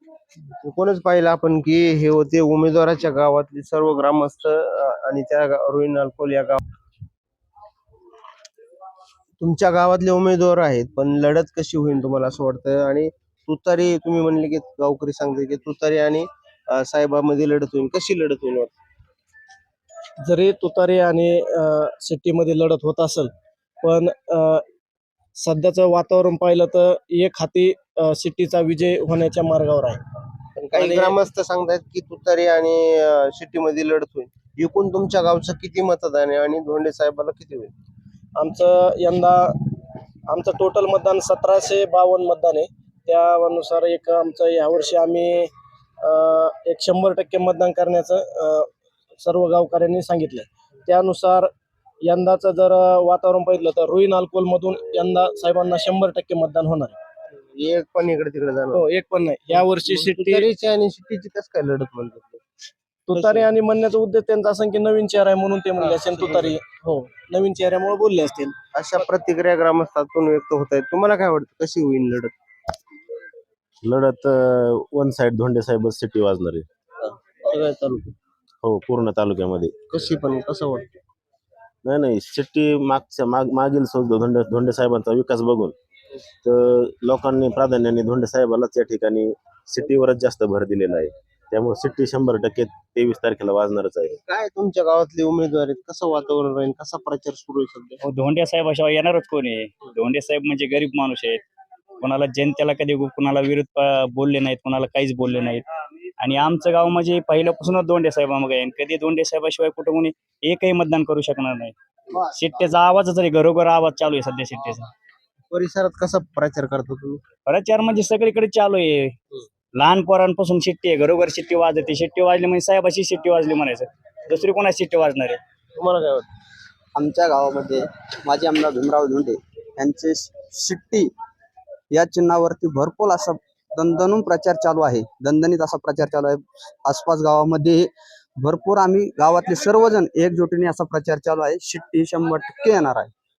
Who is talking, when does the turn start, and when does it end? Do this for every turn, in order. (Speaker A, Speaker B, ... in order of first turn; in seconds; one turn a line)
Speaker A: 0.6-6.6
Speaker A: 9.4-18.7
Speaker B: 20.2-23.3
Speaker B: 23.8-24.6
Speaker B: 25.4-30.0
Speaker A: 30.6-37.7
Speaker B: 30.6-31.2
Speaker B: 38.4-39.5
Speaker B: 40.3-45.5
Speaker B: 46.0-48.7
Speaker B: 49.2-51.5
Speaker B: 52.1-57.0
Speaker A: 57.4-58.8
Speaker B: 58.7-60.5
Speaker A: 59.9-62.4
Speaker B: 63.1-68.5
Speaker A: 63.1-63.5
Speaker A: 65.8-66.5
Speaker A: 68.8-72.3
Speaker C: 73.8-76.6
Speaker A: 77.0-78.1
Speaker C: 78.6-79.7
Speaker A: 79.9-80.9
Speaker C: 81.8-85.7
Speaker C: 86.5-94.1
Speaker A: 94.1-98.0
Speaker D: 98.0-101.4
Speaker D: 102.0-105.6
Speaker D: 106.2-111.7
Speaker D: 112.4-114.9
Speaker A: 115.5-117.2
Speaker D: 117.5-119.1
Speaker D: 119.8-125.4
Speaker A: 125.8-126.3
Speaker E: 127.0-131.1
Speaker E: 131.9-143.1